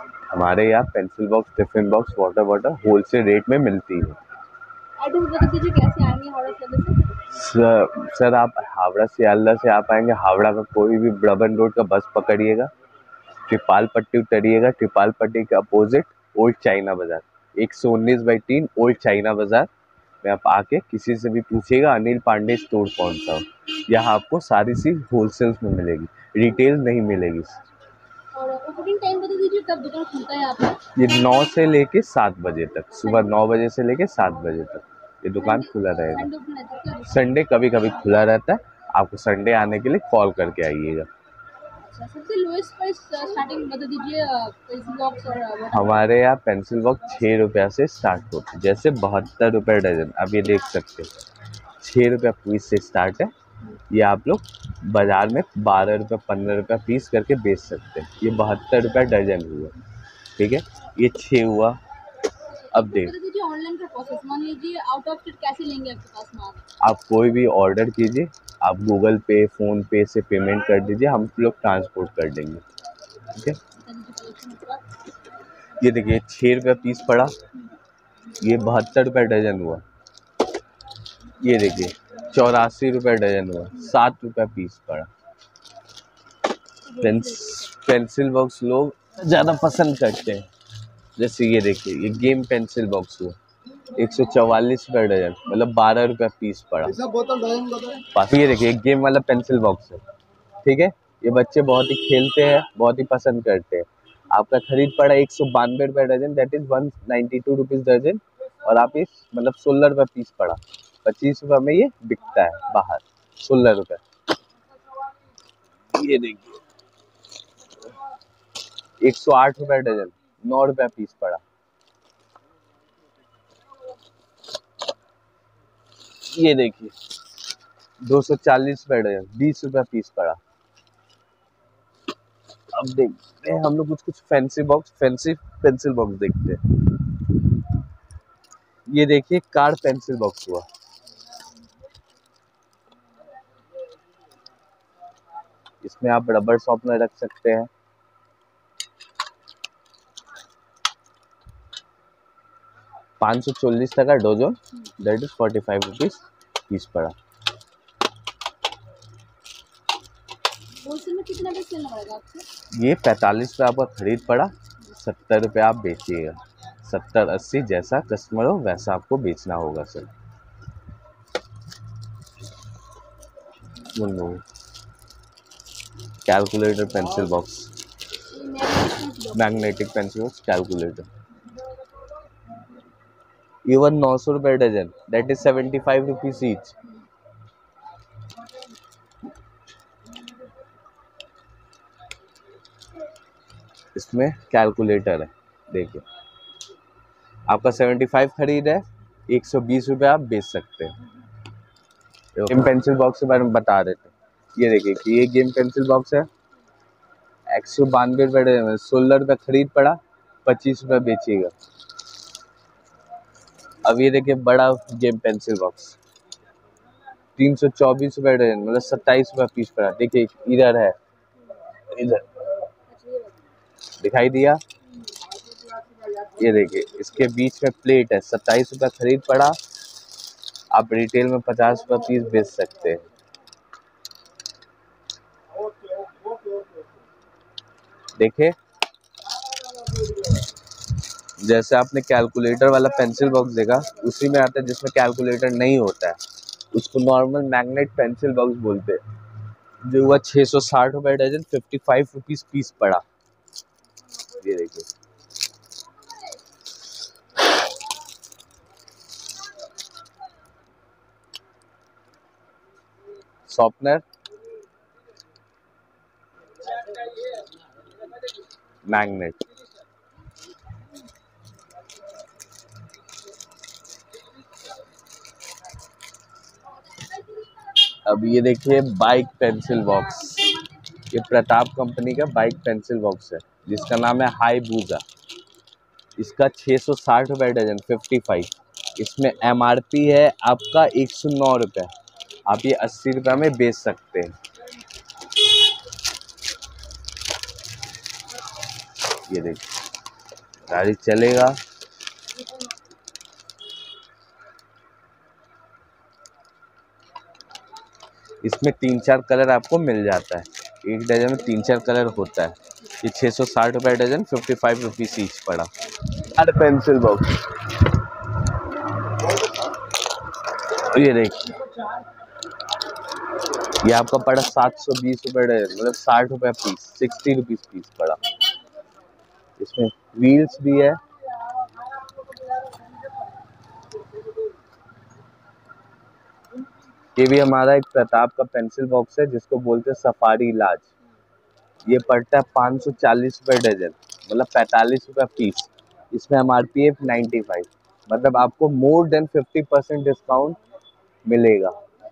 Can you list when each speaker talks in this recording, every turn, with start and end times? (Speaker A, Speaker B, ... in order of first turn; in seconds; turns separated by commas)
Speaker A: 0.3-4.2, Speaker B: 5.0-7.1, Speaker A: 7.3-12.7, Speaker A: 13.5-19.7, Speaker A: 20.2-27.6, Speaker B: 28.3-30.9, Speaker A: 30.9-36.3, Speaker B: 35.4-37.2, Speaker A: 37.0-41.1, Speaker B: 41.8-46.0, Speaker A: 45.7-51.1, Speaker A: 51.8-53.3, Speaker A: 53.9-59.8, Speaker A: 60.4-61.8, Speaker A: 62.7-63.2, Speaker B: 62.8-66.6, Speaker A: 66.8-72.6, Speaker A: 73.3-73.6, Speaker B: 73.7-74.8, Speaker A: 75.8-77.3, Speaker A: 78.4-79.8, Speaker A: 81.4-85.1, Speaker B: 86.9-87.7, Speaker A: 87.0-90.5, Speaker A: 91.2-93.4, Speaker A: 93.9-97.1, Speaker A: 98.0-100.0, Speaker A: 100.6-114.0, Speaker A: 115.9-116.5, Speaker A: 119.0-121.4, Speaker A: 126.3-127.0, Speaker A: 128.0-130.4, Speaker A: 132.8-136.6, Speaker A: 138.9-140.7, Speaker A: 145.8-147.7, Speaker A: 153.2-157.2, Speaker B: 160.8-162.5, Speaker A: 162.8-170.1, Speaker A: 173.9-174.4, Speaker A: 176.2-177.7, Speaker B: 178.3-179.6, Speaker A: 179.3-181.1, Speaker A: 183.7-186.8, Speaker A: 193.9-196.0, Speaker A: 197.5-200.9, Speaker A: 202.3-206.3, Speaker A: 207.5-211.5, Speaker A: 213.8-216.0, Speaker A: 217.4-220.9, Speaker A: 221.9-222.2, Speaker B: 222.8-223.4, Speaker A: 224.0-224.6, Speaker A: 226.4-229.6, Speaker A: 230.7-233.1, Speaker A: 238.2-238.6, Speaker A: 241.4-246.2, Speaker A: 246.7-249.0, Speaker A: 249.9-253.0, Speaker A: 254.4-254.9, Speaker A: 263.5-264.0, Speaker A: 268.9-269.4, Speaker A: 278.1-285.0, Speaker A: 286.2-291.9, Speaker A: 292.5-294.3, Speaker A: 299.3-299.6, Speaker A: 300.7-301.6, Speaker A: 308.4-315.7, Speaker A: 316.2-317.4, Speaker A: 320.8-321.6, Speaker A: 323.8-328.2, Speaker A: 329.6-331.0, Speaker A: 337.2-340.9, Speaker A: 341.9-350.6, Speaker A: 351.2-351.8